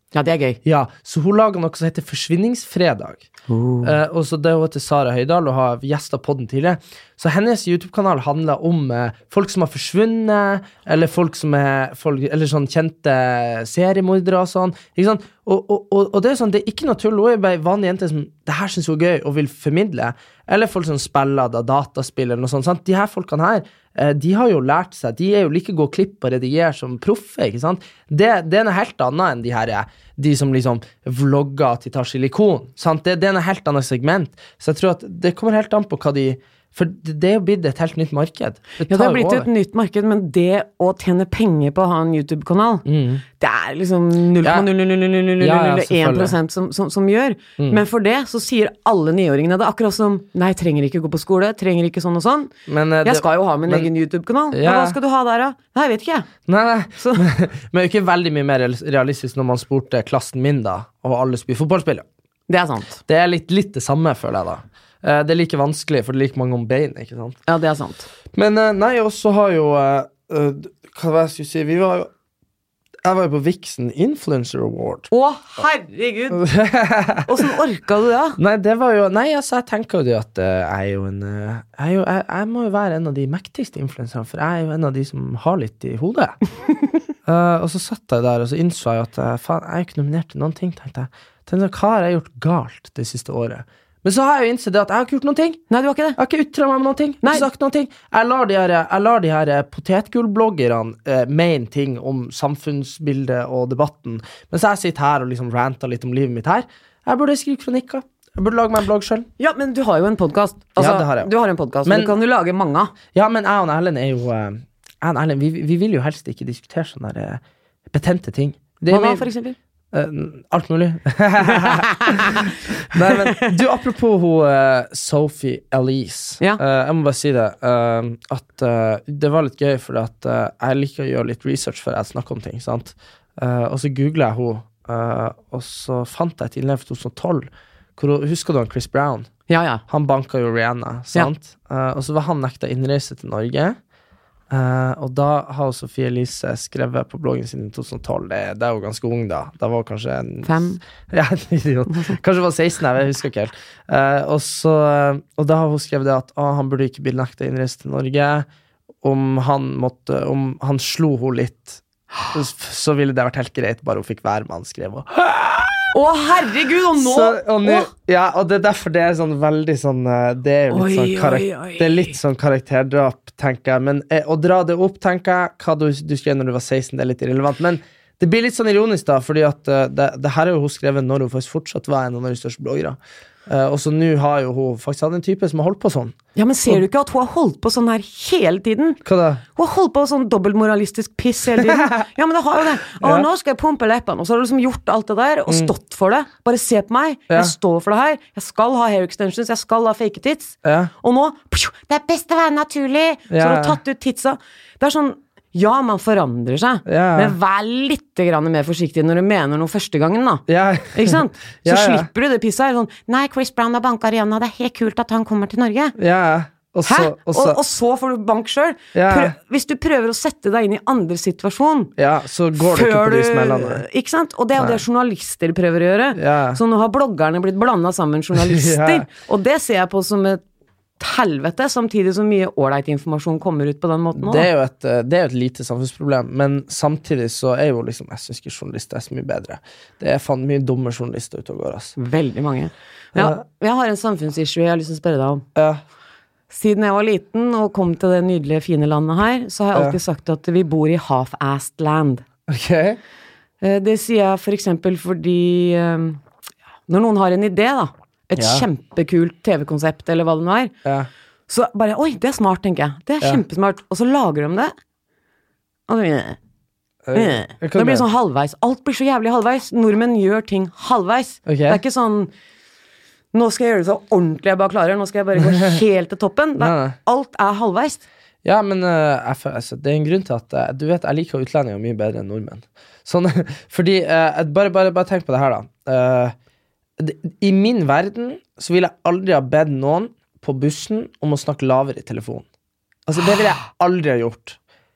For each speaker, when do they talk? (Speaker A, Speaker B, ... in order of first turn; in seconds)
Speaker A: 0.1-0.6, 3.5-4.0, 38.9-42.9, 43.4-52.5, 53.0-56.3, 57.0-57.2, 62.5-63.0, 67.5-68.1, 75.1-76.5, 77.3-78.4, 95.7-96.2, 109.4-112.9, 118.9-119.6, 121.5-123.5, 139.5-139.8, 150.4-150.8, 165.9-167.9, 170.7-172.2, 186.4-189.0, 189.6-216.0, 216.8-221.9, 222.6-230.4, 231.0-234.5, 242.0-245.4, 246.5-252.2, 253.6-256.2, 256.9-260.7, 261.5-264.7, 265.9-266.4, 267.1-272.3, 273.3-278.0
Speaker B: 0.7-3.2, 3.8-39.5, 42.9-43.2, 44.4-44.7, 45.4-46.4, 47.6-47.8, 52.7-53.9, 54.5-55.0, 56.5-62.0, 63.1-67.4, 68.3-72.1, 73.0-75.1, 76.3-77.4, 78.4-86.4, 87.3-95.6, 96.2-109.3, 110.8-111.3, 111.8-112.2, 113.1-119.3, 119.9-139.3, 139.9-143.8, 144.5-158.5, 159.0-165.9, 166.9-186.2, 189.1-189.4, 191.6-192.0, 193.0-193.3, 195.5-195.7, 197.3-197.6, 200.6-200.9, 203.3-203.8, 206.9-207.3, 210.5-212.1, 216.0-217.6, 218.9-219.4, 222.0-223.8, 224.6-224.8, 226.1-226.6, 228.3-229.1, 234.1-241.9, 243.2-243.4, 245.6-245.8, 252.5-253.0, 258.4-258.7, 267.1-268.1, 271.5-271.8, 275.4-275.8, 276.6-277.0, 278.4-286.4, 287.0-292.4, 293.1-294.6